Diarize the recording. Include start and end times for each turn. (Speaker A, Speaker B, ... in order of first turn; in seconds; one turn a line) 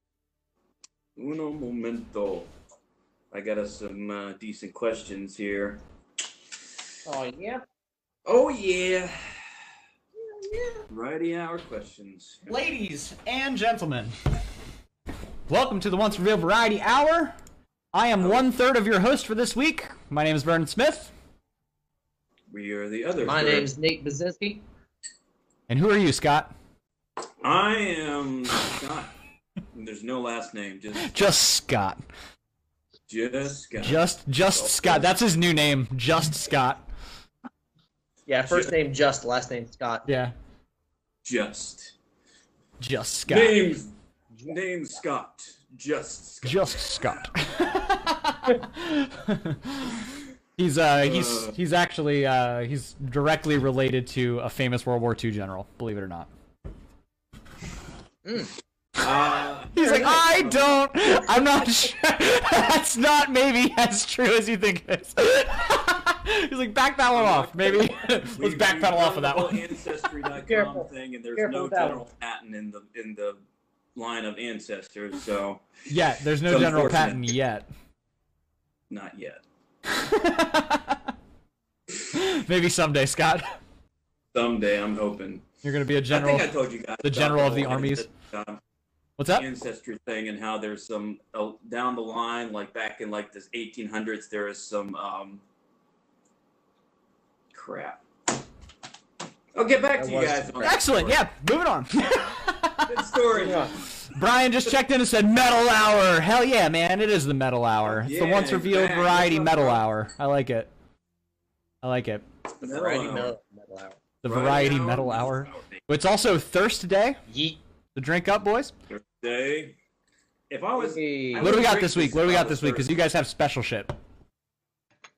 Speaker A: 1.1-2.5
Speaker A: 3.3-5.8
Speaker B: 7.0-7.6
Speaker A: 8.2-9.3
Speaker B: 10.4-10.8
Speaker A: 10.9-12.6
Speaker C: 12.5-14.1
Speaker C: 15.5-17.4
Speaker C: 17.9-21.1
Speaker A: 18.2-18.4
Speaker A: 22.5-23.7
Speaker B: 23.2-24.6
Speaker C: 25.7-26.5
Speaker A: 27.4-29.1
Speaker A: 29.7-31.3
Speaker C: 31.0-32.0
Speaker A: 33.1-35.0
Speaker C: 33.8-36.9
Speaker B: 38.3-40.1
Speaker C: 40.1-40.3
Speaker A: 41.2-41.9
Speaker C: 42.8-43.6
Speaker A: 43.3-43.9
Speaker A: 44.5-47.0
Speaker C: 46.4-50.0
Speaker C: 50.6-56.3
Speaker A: 51.0-51.5
Speaker B: 58.2-58.5
Speaker A: 59.0-60.7
Speaker C: 59.7-69.7
Speaker A: 67.1-73.4
Speaker B: 70.5-72.0
Speaker A: 73.9-75.6
Speaker C: 75.9-77.7
Speaker A: 76.5-77.3
Speaker A: 78.9-79.4
Speaker C: 79.9-81.1
Speaker C: 82.1-83.6
Speaker A: 84.3-85.5
Speaker C: 85.6-88.1
Speaker A: 86.1-88.6
Speaker C: 89.2-89.5
Speaker A: 89.3-95.4
Speaker A: 97.5-98.0
Speaker A: 99.5-101.2
Speaker B: 100.0-100.8
Speaker C: 100.6-102.9
Speaker A: 102.9-103.8
Speaker B: 103.3-103.8
Speaker C: 104.0-110.7
Speaker A: 107.8-109.8
Speaker C: 111.8-112.2
Speaker A: 112.6-113.3
Speaker B: 112.6-114.0
Speaker C: 114.2-117.2
Speaker A: 114.2-115.8
Speaker B: 117.3-117.6
Speaker C: 117.9-118.7
Speaker A: 118.9-119.8
Speaker A: 120.5-122.9
Speaker B: 120.8-121.5
Speaker C: 121.4-124.0